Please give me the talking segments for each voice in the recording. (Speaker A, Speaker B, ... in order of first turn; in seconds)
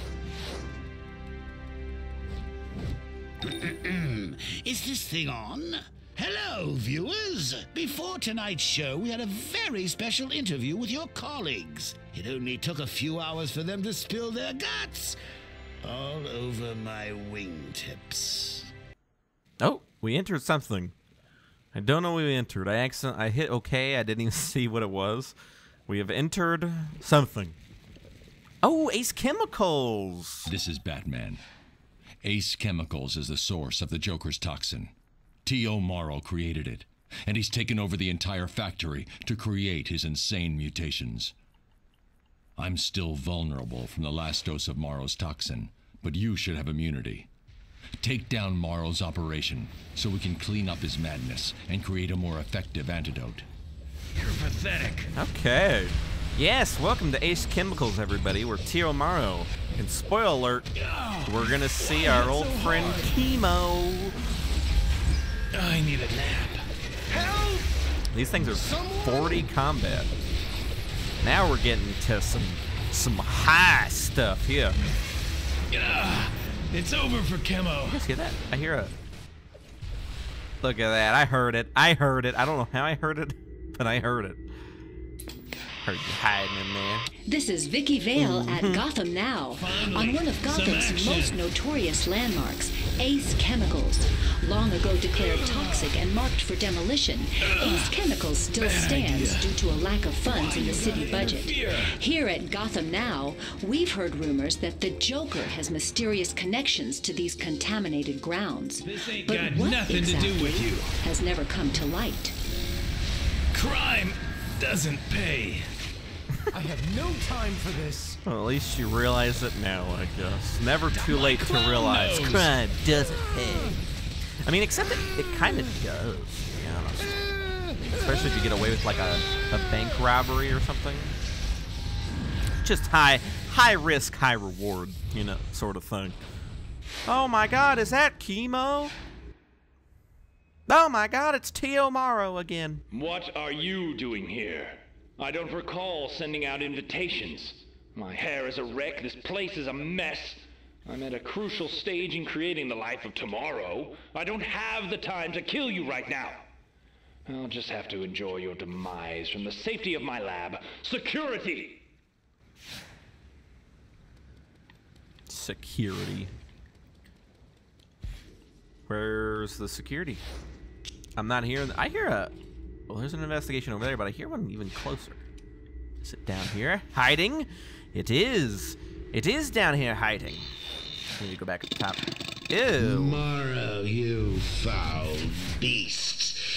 Speaker A: 3.4-15.2, 15.8-18.7, 182.8-186.4
Speaker B: 19.6-20.9, 21.7-25.3, 25.9-27.6, 28.6-30.5, 55.1-60.7, 61.2-64.1, 68.1-70.1, 71.2-74.8, 77.8-78.9, 80.6-84.4, 85.8-87.1, 88.2-88.8, 118.2-123.8, 124.4-127.3, 127.9-131.1, 132.6-136.2, 137.1-138.9, 140.7-142.8, 165.3-166.3, 168.9-170.2, 171.2-172.3, 172.9-175.2, 176.0-180.5, 181.2-183.2
Speaker C: 30.5-31.4, 32.2-34.9, 35.4-41.3, 42.6-47.3, 48.0-53.5
Speaker D: 54.1-55.1, 60.8-63.1, 65.5-66.6, 75.7-78.0, 89.5-91.4, 95.0-96.0, 97.4-98.0, 98.5-99.5, 100.2-102.0, 108.9-110.8, 113.5-115.6, 120.9-122.5
Speaker E: 67.1-67.7, 68.5-69.4, 117.0-118.1
Speaker F: 87.2-112.3
Speaker G: 142.9-156.4, 157.2-161.8